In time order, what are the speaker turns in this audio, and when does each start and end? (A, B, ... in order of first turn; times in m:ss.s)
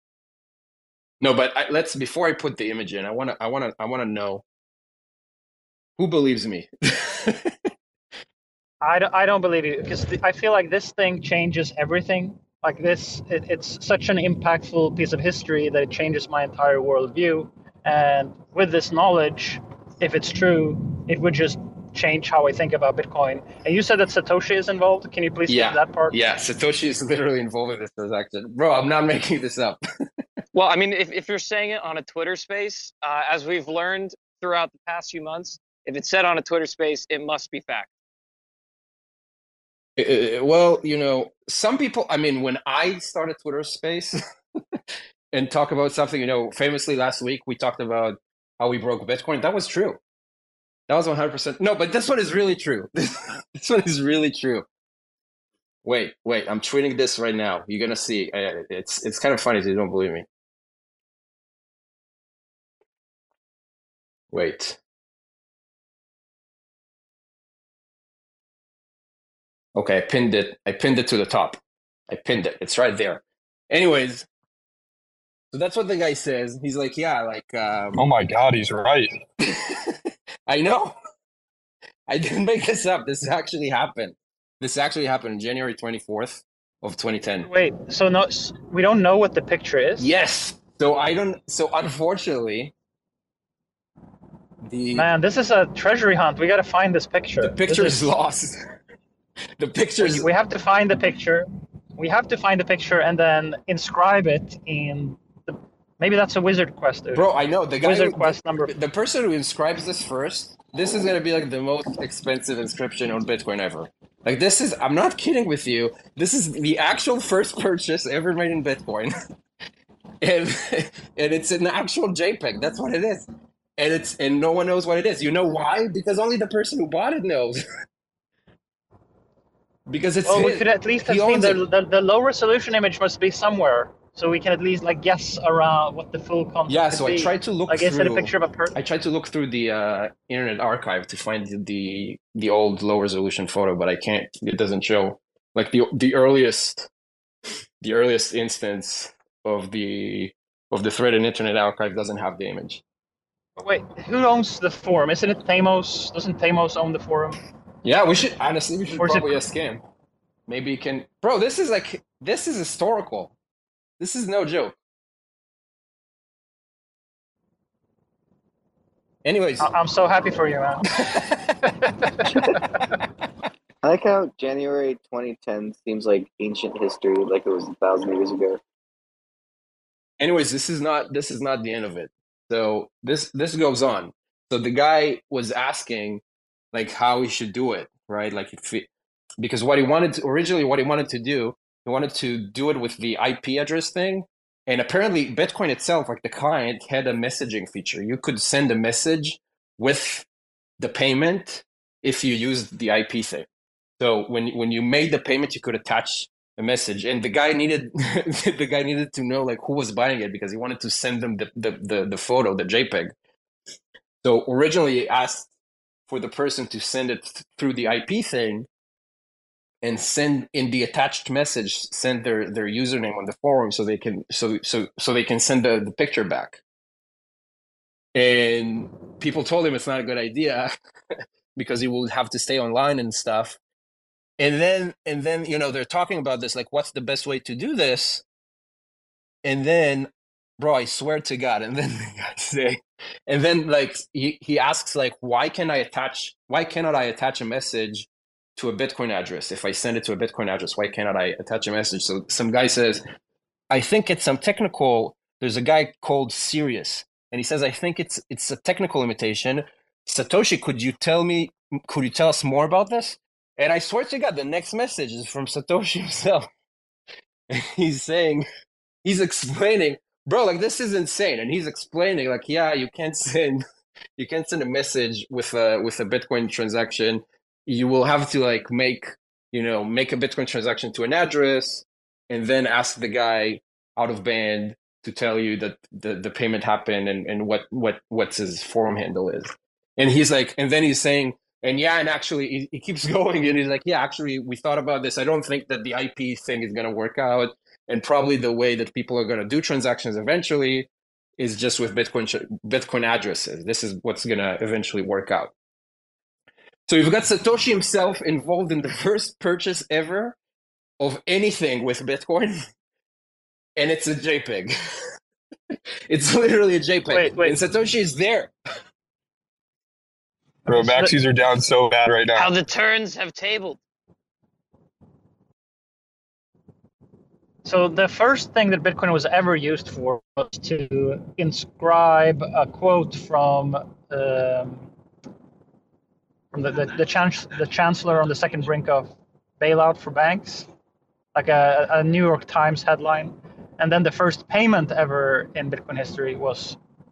0:01.2-0:04.4 A
0:06.0-0:07.5 A
0:08.8-0:26.2 B
0:25.5-0:29.8 A
0:30.5-0:37.9 C
0:40.0-0:44.2 A
0:45.3-0:50.0 A
0:50.9-0:54.6 A
0:55.8-1:00.2 A
1:04.3-1:04.8 A
1:09.7-1:14.3 A
1:15.5-1:18.0 A
1:17.9-1:19.1 D
1:19.5-1:19.8 A
1:20.5-1:20.9 A
1:22.1-1:27.5 A
1:27.4-1:30.1 B
1:30.0-1:32.7 A
1:34.6-1:35.1 A
1:35.0-1:38.1 B
1:37.4-1:38.6 A
1:39.6-1:40.3 A
1:40.0-1:47.2 B
1:47.1-1:59.1 A
1:47.8-1:48.7 B
2:00.2-2:03.2 A
2:03.8-2:07.6 A
2:09.9-2:11.6 A
2:10.2-2:18.8 B
2:16.7-2:26.9 A
2:27.8-2:32.8 A
2:33.6-2:37.4 B
2:37.8-2:39.8 A
2:39.0-2:39.4 B
2:40.5-2:43.3 A
2:44.0-2:44.8 A
2:49.2-2:49.7 A
2:49.6-2:50.8 B
2:53.8-2:58.6 E
3:00.2-3:06.2 A
3:06.7-3:08.9 A
3:09.4-3:20.3 A
3:20.8-3:23.5 A
3:24.0-3:33.1 A
3:34.2-3:35.5 A
3:36.1-3:38.7 A
3:39.8-3:46.6 A
3:48.1-3:50.7 A
3:51.5-3:53.6 A
3:54.4-3:58.2 A
3:59.4-4:13.0 A
4:13.7-4:26.5 A
4:27.5-4:28.4 A
4:29.0-4:33.6 A
4:34.2-5:05.5 A
5:06.9-5:10.4 A
5:11.0-5:12.6 A
5:13.8-5:14.7 A
5:16.1-5:18.5 A
5:17.1-5:17.6 B
5:20.7-5:22.5 D
5:20.7-5:21.1 B
5:22.4-5:23.8 C
5:27.6-5:34.9 B
5:36.5-5:40.7 B
5:41.3-5:46.8 B